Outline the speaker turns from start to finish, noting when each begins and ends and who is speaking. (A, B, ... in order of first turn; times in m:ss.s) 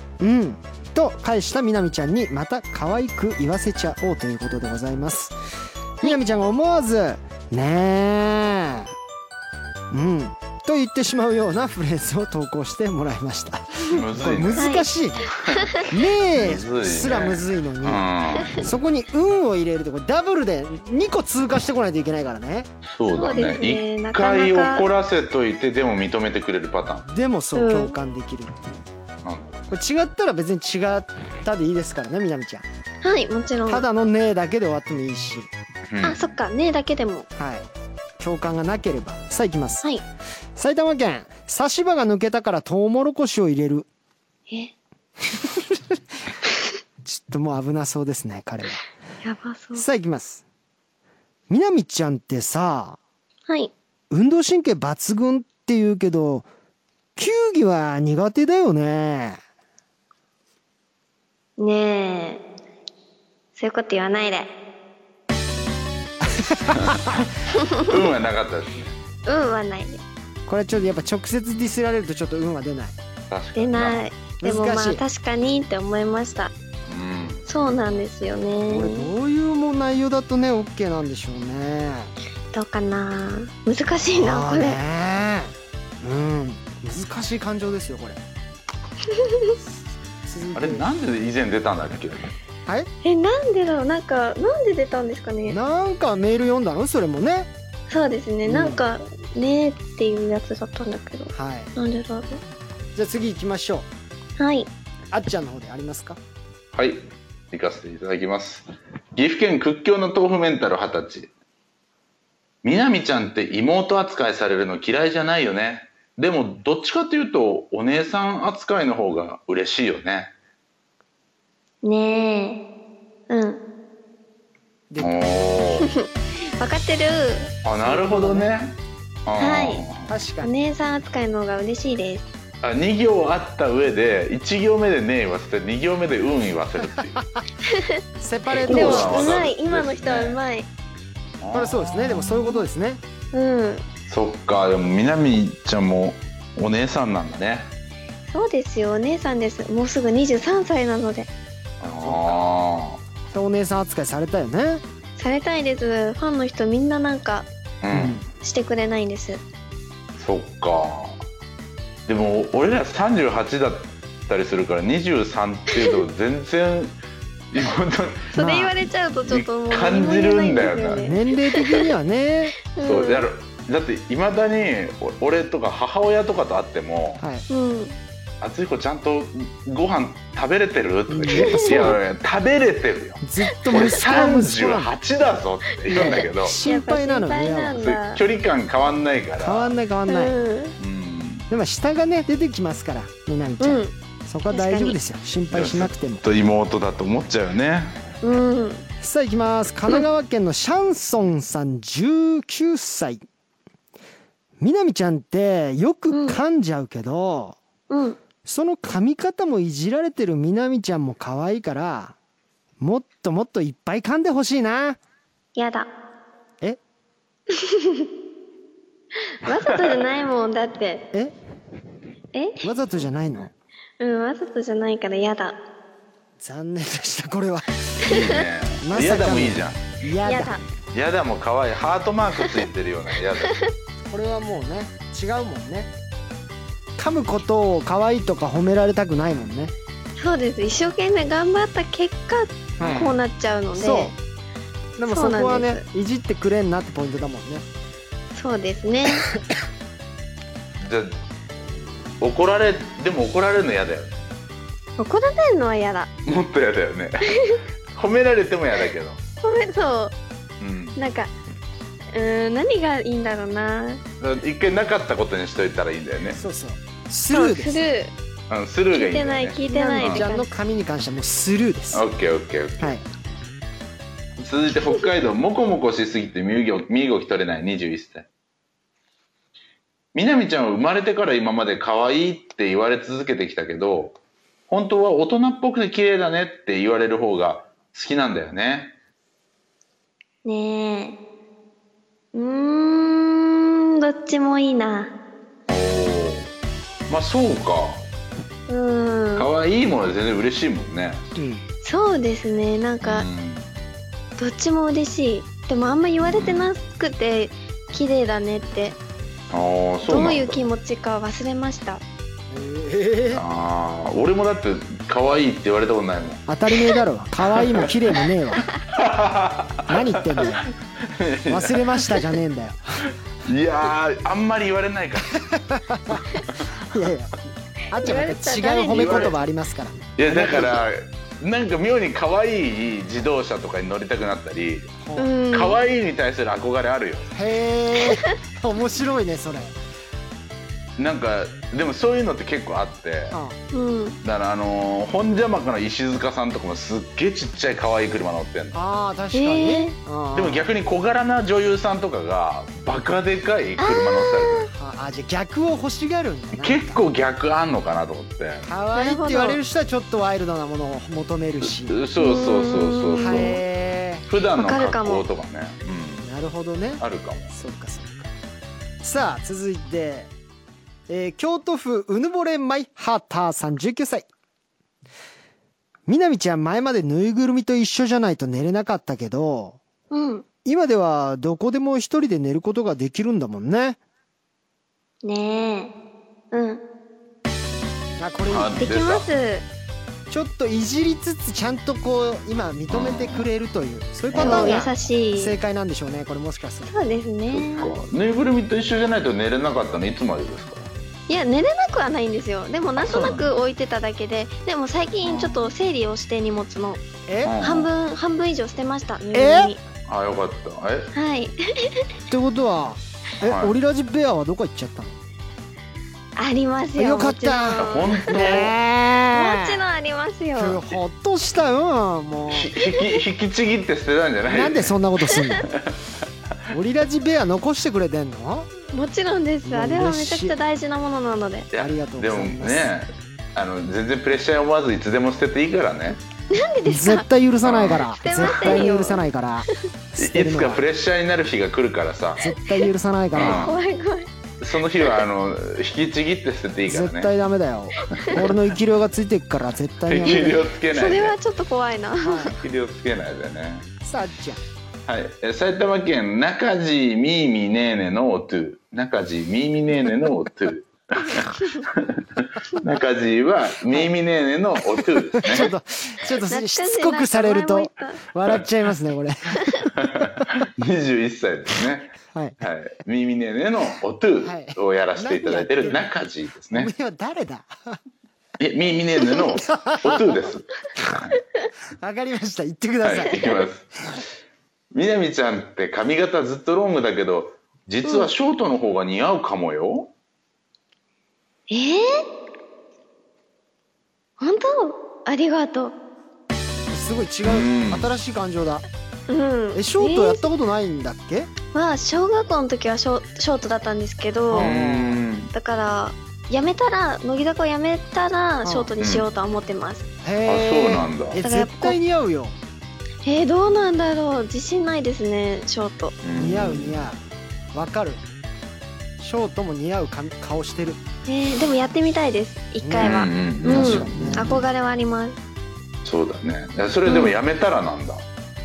0:00.2-0:05.4 A
0:06.0-0:08.9 A
0:09.9-0:18.0 A
0:13.9-0:14.7 B
0:14.6-0:14.9 C
0:15.4-0:18.6 B
0:18.6-0:22.7 A
0:22.9-0:27.0 B
0:23.1-0:24.9 C
0:27.1-0:28.6 A
0:27.5-0:27.9 C
0:29.2-0:29.7 B
0:29.7-0:32.6 A
0:33.0-0:33.8 C
0:33.7-0:35.5 A
0:35.9-0:36.2 B
0:36.0-0:37.3 C
0:37.4-0:37.7 A
0:38.2-0:39.8 A
0:40.6-0:43.9 A
0:47.0-0:48.8 A
0:49.2-0:49.8 C
0:49.8-0:50.4 A
0:51.5-0:53.0 A
0:54.1-0:56.5 A
0:57.2-0:59.4 A
1:01.6-1:02.4 C
1:03.6-1:04.5 C
1:06.2-1:07.2 A
1:06.7-1:08.9 B
1:07.5-1:07.8 C
1:09.2-1:10.0 C
1:10.5-1:13.0 A
1:13.3-1:14.0 B
1:13.5-1:16.5 C
1:14.4-1:15.0 A
1:16.9-1:17.4 B
1:17.4-1:19.1 C
1:18.7-1:22.1 A
1:22.5-1:24.8 C
1:24.1-1:28.2 A
1:29.1-1:29.6 C
1:30.2-1:30.9 A
1:30.5-1:32.3 B
1:33.0-1:35.6 C
1:35.5-1:37.5 A
1:37.9-1:42.4 C
1:38.4-1:38.8 A
1:41.3-1:41.7 A
1:42.9-1:43.9 A
1:44.4-1:44.7 C
1:45.1-1:46.2 A
1:46.7-1:51.3 B
1:52.6-2:00.3 B
2:01.8-2:02.6 C
2:03.3-2:03.6 C
2:04.9-2:05.2 A
2:05.0-2:05.9 B
2:05.8-2:07.5 C
2:07.6-2:10.1 B
2:07.8-2:08.5 A
2:09.4-2:09.8 C
2:10.1-2:10.5 A
2:10.4-2:12.3 C
2:12.6-2:17.2 B
2:17.6-2:18.0 C
2:18.2-2:19.4 A
2:18.5-2:20.7 C
2:18.6-2:20.4 B
2:21.4-2:22.5 B
2:21.5-2:23.0 A
2:23.3-2:23.8 C
2:24.1-2:27.7 B
2:28.3-2:31.3 C
2:31.8-2:33.0 B
2:31.9-2:32.4 A
2:33.3-2:34.8 A
2:35.2-2:37.5 C
2:37.8-2:38.2 B
2:37.9-2:38.3 A
2:38.4-2:39.4 C
2:40.2-2:41.2 B
2:42.1-2:46.9 B
2:47.5-2:48.3 B
2:48.3-2:51.2 C
2:48.4-2:48.7 A
2:49.2-2:51.1 B
2:51.0-2:52.6 A
2:52.7-2:53.2 C
2:52.8-2:57.2 B
2:57.2-2:57.4 A
2:57.5-2:58.0 C
2:58.4-3:06.6 B
3:01.1-3:02.0 A
3:01.4-3:01.7 C
3:03.2-3:04.9 A
3:03.6-3:04.0 C
3:05.9-3:07.8 A
3:05.9-3:08.2 C
3:07.8-3:09.7 B
3:09.4-3:10.4 A
3:10.1-3:10.7 C
3:10.8-3:11.4 B
3:11.5-3:16.2 A
3:13.6-3:13.9 C
3:14.5-3:15.0 C
3:15.5-3:18.0 B
3:18.2-3:18.8 C
3:19.0-3:23.2 A
3:24.6-3:27.6 A
3:26.1-3:26.4 C
3:27.9-3:28.2 C
3:28.4-3:32.2 A
3:32.8-3:35.0 A
3:35.6-3:35.9 C
3:37.5-3:38.0 C
3:39.4-3:41.1 C
3:42.3-3:42.6 C
3:42.6-3:43.5 A
3:44.0-3:45.6 C
3:46.4-3:48.1 A
3:48.0-3:50.0 B
3:48.8-3:50.6 A
3:50.2-3:50.6 C
3:50.8-3:53.6 B
3:54.1-3:55.9 A
3:57.0-3:59.7 A
4:00.2-4:04.1 C
4:02.8-4:03.2 A
4:03.7-4:04.1 A
4:05.0-4:07.6 A
4:05.1-4:05.8 C
4:08.3-4:09.3 C
4:10.8-4:11.1 B
4:12.2-4:14.2 B
4:15.0-4:16.1 C
4:16.2-4:19.2 B
4:19.4-4:20.1 C
4:20.6-4:21.0 B
4:21.0-4:21.3 C
4:22.1-4:24.0 C
4:24.2-4:26.4 B
4:26.3-4:27.9 A
4:27.3-4:28.1 C
4:28.5-4:30.2 B
4:28.9-4:30.5 C
4:29.7-4:32.0 A
4:31.9-4:33.0 B
4:34.4-4:38.3 B
4:40.1-4:44.2 B
4:44.7-4:49.0 B
4:50.4-4:51.2 C
4:52.3-4:55.1 C
4:55.7-4:56.5 B
4:57.1-4:58.0 B
4:58.7-4:59.5 C
4:59.4-5:01.2 B
5:01.4-5:01.6 A
5:01.8-5:03.3 C
5:03.0-5:03.7 B
5:04.4-5:09.0 C
5:06.2-5:06.7 B
5:09.5-5:10.7 B
5:10.0-5:12.0 C
5:12.5-5:13.4 A
5:13.3-5:16.4 B
5:16.5-5:18.6 A
5:17.5-5:17.9 B
5:18.9-5:22.3 B
5:19.9-5:20.6 A
5:21.5-5:23.0 A
5:23.0-5:25.5 B
5:25.7-5:26.2 A
5:26.5-5:27.0 B
5:26.9-5:27.4 A
5:27.9-5:30.8 A
5:28.0-5:29.3 C
5:28.9-5:29.3 B
5:30.2-5:35.0 B
5:35.0-5:35.3 A
5:35.2-5:35.8 C
5:35.5-5:37.3 B
5:37.3-5:39.7 A
5:41.0-5:43.4 B
5:43.3-5:43.6 A
5:43.7-5:44.2 C
5:44.2-5:48.8 B
5:48.7-5:50.7 A
5:49.3-5:49.9 C
5:50.3-5:54.7 B
5:53.8-5:54.7 C
5:54.7-5:57.0 A
5:56.6-5:58.6 B
5:58.6-6:02.0 A
5:58.9-5:59.6 C
6:01.6-6:03.6 B
6:02.2-6:03.6 C
6:03.2-6:04.2 A
6:04.3-6:06.2 B
6:04.6-6:05.2 C
6:06.2-6:08.3 A
6:07.0-6:07.5 B
6:09.0-6:10.3 A
6:11.1-6:14.3 A
6:16.1-6:19.8 A
6:20.1-6:20.4 C
6:20.6-6:24.0 A
6:25.2-6:25.9 C
6:26.5-6:26.8 C
6:28.2-6:28.9 A
6:28.5-6:29.3 B
6:28.8-6:29.6 C
6:30.3-6:36.9 A
6:32.9-6:33.4 B
6:34.3-6:34.9 B
6:34.4-6:35.5 C
6:36.8-6:37.9 C
6:37.5-6:40.9 B
6:41.3-6:47.0 C
6:43.0-6:43.5 B
6:45.2-6:45.7 B
6:47.3-6:47.6 A
6:47.4-6:47.9 B
6:47.6-6:49.8 C
6:49.3-6:49.7 A
6:50.1-6:51.1 B
6:51.1-6:52.0 C
6:52.3-6:55.2 A
6:53.4-6:53.7 B
6:56.4-6:58.7 C
6:57.0-6:59.8 A
6:57.8-6:58.7 B
6:59.3-7:00.8 C
7:00.5-7:02.7 A
7:02.5-7:04.9 B
7:04.4-7:05.6 A
7:06.7-7:08.7 A
7:08.9-7:11.7 C
7:09.6-7:10.6 A
7:11.7-7:16.2 B
7:11.7-7:12.9 A
7:16.5-7:17.3 C
7:16.8-7:20.8 A
7:17.6-7:18.8 B
7:18.1-7:19.2 C
7:20.2-7:22.4 B
7:22.4-7:23.7 A
7:23.3-7:23.8 B
7:23.4-7:24.3 C
7:24.6-7:27.3 B
7:26.9-7:30.6 A
7:28.2-7:28.5 B
7:30.1-7:31.4 B
7:30.2-7:32.5 C
7:32.2-7:32.6 A
7:32.6-7:33.9 B
7:34.0-7:34.6 A
7:35.1-7:45.7 B
7:45.4-7:49.6 A
7:46.5-7:48.2 C
7:50.0-7:56.9 B
7:54.4-7:56.1 A
7:56.7-7:58.0 A
7:58.6-8:00.6 B
7:59.4-8:00.4 A
8:02.0-8:03.6 A
8:03.0-8:03.9 B
8:04.9-8:10.1 B
8:08.0-8:08.3 C
8:11.7-8:12.2 C
8:14.4-8:15.9 C
8:16.9-8:18.8 A
8:17.4-8:18.1 B
8:19.3-8:20.5 C
8:19.7-8:21.5 A
8:21.7-8:24.7 C
8:24.5-8:25.2 A
8:24.5-8:25.5 B
8:25.5-8:30.0 C
8:28.6-8:28.9 A
8:29.0-8:29.3 B
8:30.2-8:32.5 A
8:30.4-8:31.4 B
8:31.4-8:32.0 C
8:33.2-8:36.2 C
8:36.2-8:37.1 B
8:36.3-8:37.2 A
8:37.7-8:38.2 A
8:39.2-8:41.0 A
8:41.3-8:45.4 C
8:42.8-8:44.6 A
8:43.0-8:44.6 B
8:46.0-8:48.2 B
8:47.0-8:47.3 C